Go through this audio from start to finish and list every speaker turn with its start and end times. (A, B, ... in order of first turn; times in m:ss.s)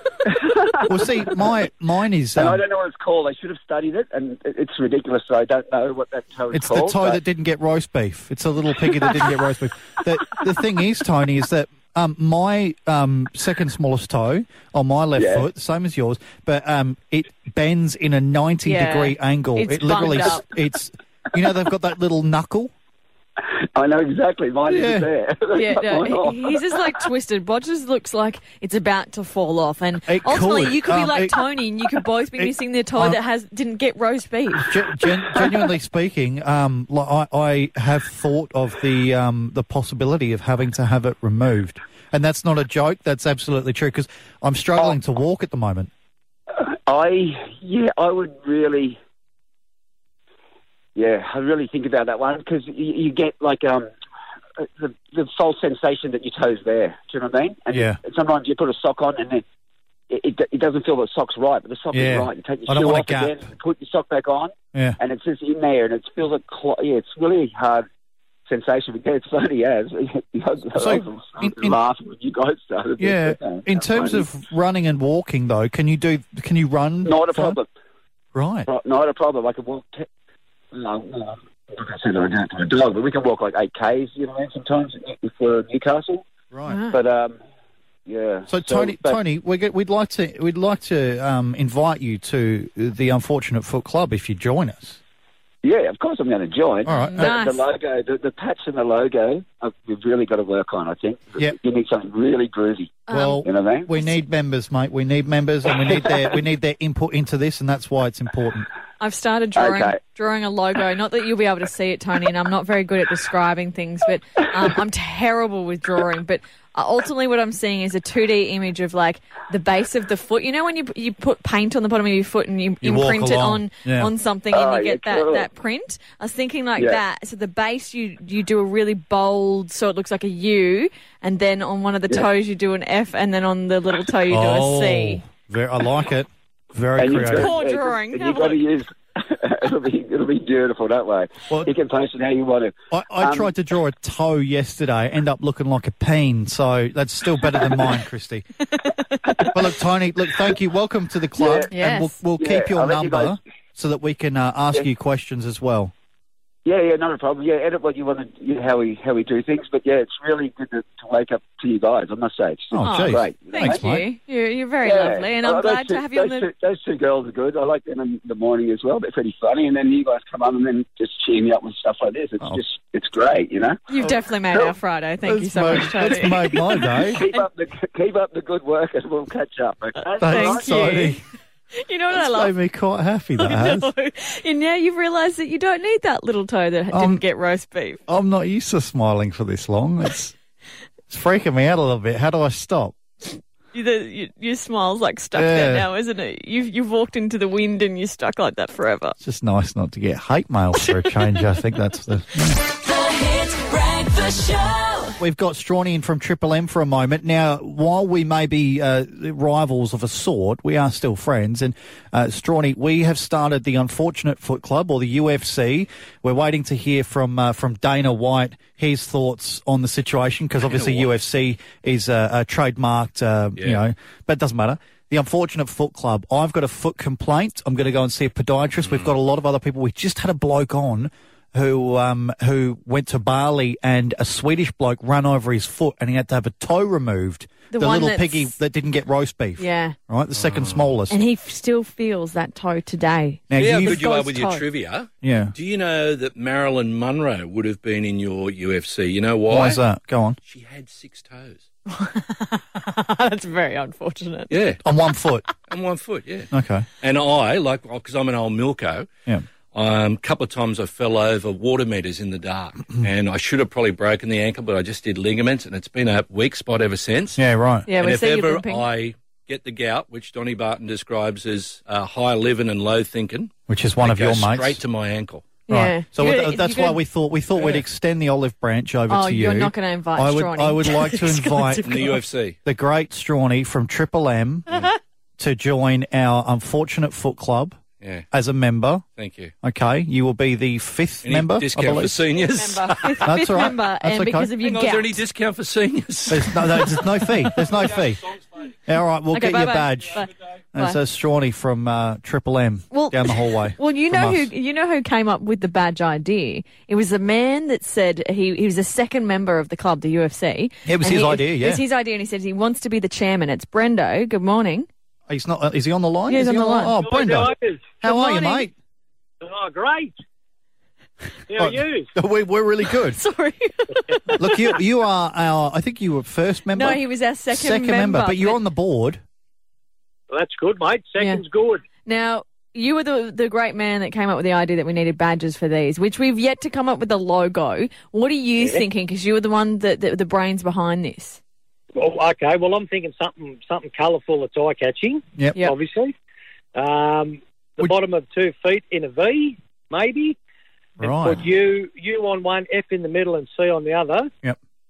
0:00.3-0:01.5 A
0:00.9-0:02.6 B
0:02.4-0:07.2 A
0:06.5-0:22.7 B
0:09.0-0:09.3 A
0:15.2-0:15.5 A
0:18.6-0:20.4 C
0:23.4-0:26.8 A
0:24.7-0:25.1 B
0:25.5-0:34.8 C
0:30.0-0:31.4 B
0:32.4-0:33.2 B
0:34.7-0:45.9 B
0:46.5-0:49.0 A
0:51.0-0:53.9 A
0:54.6-0:59.4 A
0:57.7-0:58.0 B
1:00.1-1:07.9 A
1:01.9-1:03.4 B
1:08.5-1:14.3 A
1:10.8-1:11.8 B
1:13.0-1:17.6 B
1:17.0-1:17.7 A
1:18.3-1:18.7 B
1:18.7-1:20.1 A
1:20.7-1:26.3 A
1:26.5-1:26.8 B
1:26.7-1:27.0 C
1:26.9-1:27.4 A
1:28.1-1:29.2 A
1:28.5-1:35.0 B
1:35.6-1:43.9 A
1:36.9-1:37.4 B
1:36.9-1:37.6 C
1:43.1-1:44.2 C
1:43.1-1:48.7 B
1:49.0-2:15.2 C
1:49.6-1:50.0 A
2:02.8-2:04.1 B
2:04.5-2:05.5 A
2:14.3-2:17.5 B
2:17.0-2:23.5 A
2:17.2-2:18.6 C
2:22.9-2:28.5 B
2:28.8-2:29.2 C
2:29.5-2:35.9 B
2:31.4-2:31.7 A
2:31.7-2:32.2 C
2:32.4-2:33.4 A
2:36.6-2:43.8 A
2:42.7-2:44.0 B
2:42.8-2:46.5 C
2:44.8-2:53.8 A
2:53.9-2:57.5 C
2:55.2-2:57.2 B
2:57.0-3:01.0 A
3:00.0-3:01.2 C
3:00.2-3:01.2 B
3:01.7-3:02.5 C
3:02.1-3:03.9 B
3:03.4-3:08.0 C
3:06.9-3:07.2 B
3:08.1-3:10.4 B
3:11.1-3:13.0 B
3:13.7-3:19.2 C
3:15.4-3:15.9 B
3:19.2-3:22.6 B
3:20.8-3:21.4 C
3:22.7-3:25.2 D
3:25.2-4:01.2 B
3:40.7-3:41.1 E
3:48.8-3:49.1 E
3:57.7-3:58.6 C
3:59.6-4:00.0 C
4:00.3-4:00.9 E
4:01.1-4:04.7 C
4:03.5-4:04.0 B
4:03.6-4:09.8 E
4:05.2-4:05.6 B
4:09.5-4:10.4 B
4:10.5-4:11.6 E
4:11.9-4:14.5 C
4:14.5-4:14.8 E
4:14.8-4:15.5 B
4:15.7-4:16.5 E
4:16.5-4:16.9 B
4:17.0-4:19.1 E
4:19.7-4:27.4 E
4:27.4-4:27.9 B
4:27.9-4:28.9 C
4:27.9-4:35.6 E
4:33.7-4:34.8 B
4:35.7-4:37.0 C
4:35.7-4:42.1 B
4:39.1-4:42.2 C
4:41.8-4:42.6 E
4:42.6-4:47.8 B
4:48.0-4:48.3 E
4:48.3-4:49.0 B
4:49.2-4:49.5 E
4:49.6-4:52.2 B
4:51.2-4:53.3 E
4:52.6-4:55.2 C
4:53.2-4:54.5 B
4:54.6-4:57.9 E
4:56.3-4:58.2 B
4:58.9-5:00.2 B
4:59.3-5:01.0 C
5:00.7-5:04.5 B
5:02.9-5:14.9 C
5:10.9-5:11.8 B
5:15.3-5:18.7 B
5:16.3-5:17.0 C
5:17.0-5:18.0 F
5:18.0-5:18.7 C
5:19.4-5:20.2 F
5:21.5-5:22.1 F
5:21.6-5:23.2 B
5:23.1-5:24.6 C
5:24.4-5:29.2 B
5:26.7-5:28.6 C
5:30.3-5:31.8 F
5:32.0-5:41.4 C
5:38.6-5:38.8 F
5:42.0-5:46.1 F
5:46.8-5:50.4 F
5:51.0-5:51.5 B
5:51.0-5:54.3 F